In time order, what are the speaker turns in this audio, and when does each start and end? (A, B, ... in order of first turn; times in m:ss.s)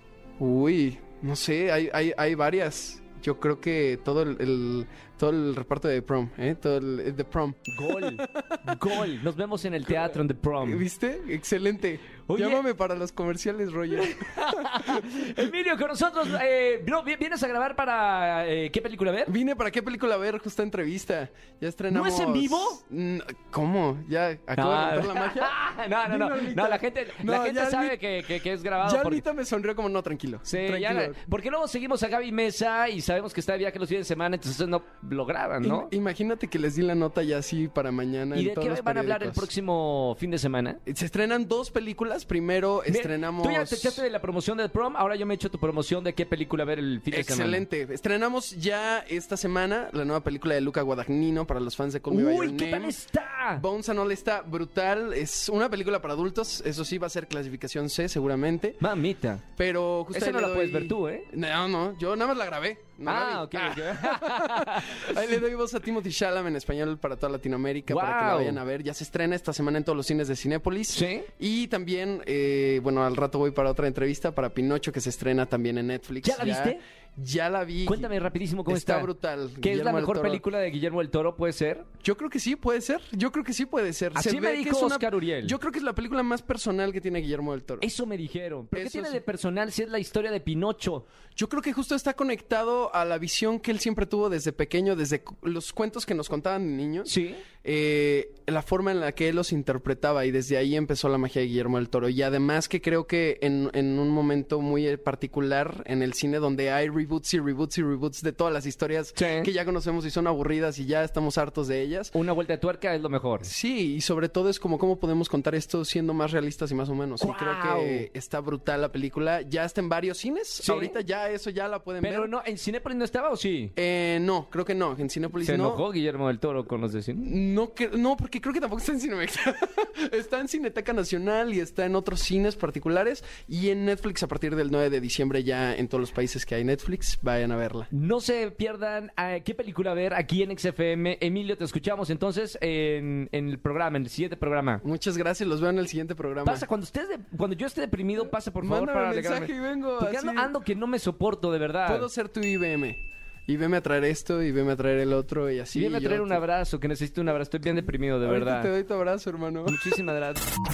0:00.4-0:08.6 A
0:07.7-0:10.8 B
0:09.8-0:15.5 A
0:12.3-0:12.6 B
0:13.9-0:19.3 B
0:19.3-0:28.2 A
0:21.9-0:22.8 B
0:24.6-0:29.2 B
0:28.8-0:31.2 A
0:30.5-0:35.9 B
0:35.6-0:39.5 A
0:38.3-0:40.8 B
0:40.8-0:44.0 A
0:42.9-0:47.6 B
0:47.1-0:53.0 A
0:52.1-0:53.6 B
0:53.5-0:58.8 A
0:58.8-0:59.4 B
0:59.6-1:20.4 A
1:00.1-1:01.3 B
1:03.0-1:05.3 B
1:07.9-1:08.6 B
1:10.9-1:11.3 B
1:16.2-1:16.8 B
1:17.8-1:21.9 B
1:22.0-1:27.9 A
1:24.1-1:25.6 B
1:27.8-1:31.1 B
1:28.7-1:29.2 A
1:31.3-1:37.1 A
1:37.0-1:37.4 B
1:37.6-1:52.1 A
1:49.2-1:49.5 B
1:52.1-1:53.5 B
1:53.4-2:02.3 A
1:57.2-1:58.1 B
2:00.6-2:01.0 B
2:02.0-2:03.7 B
2:03.8-2:05.8 A
2:05.4-2:07.3 B
2:07.2-2:17.9 A
2:17.9-2:24.8 B
2:24.8-2:26.6 A
2:26.4-2:32.1 B
2:28.2-2:30.5 A
2:31.8-2:36.4 A
2:35.7-2:38.7 B
2:37.7-2:39.8 A
2:39.6-2:40.4 B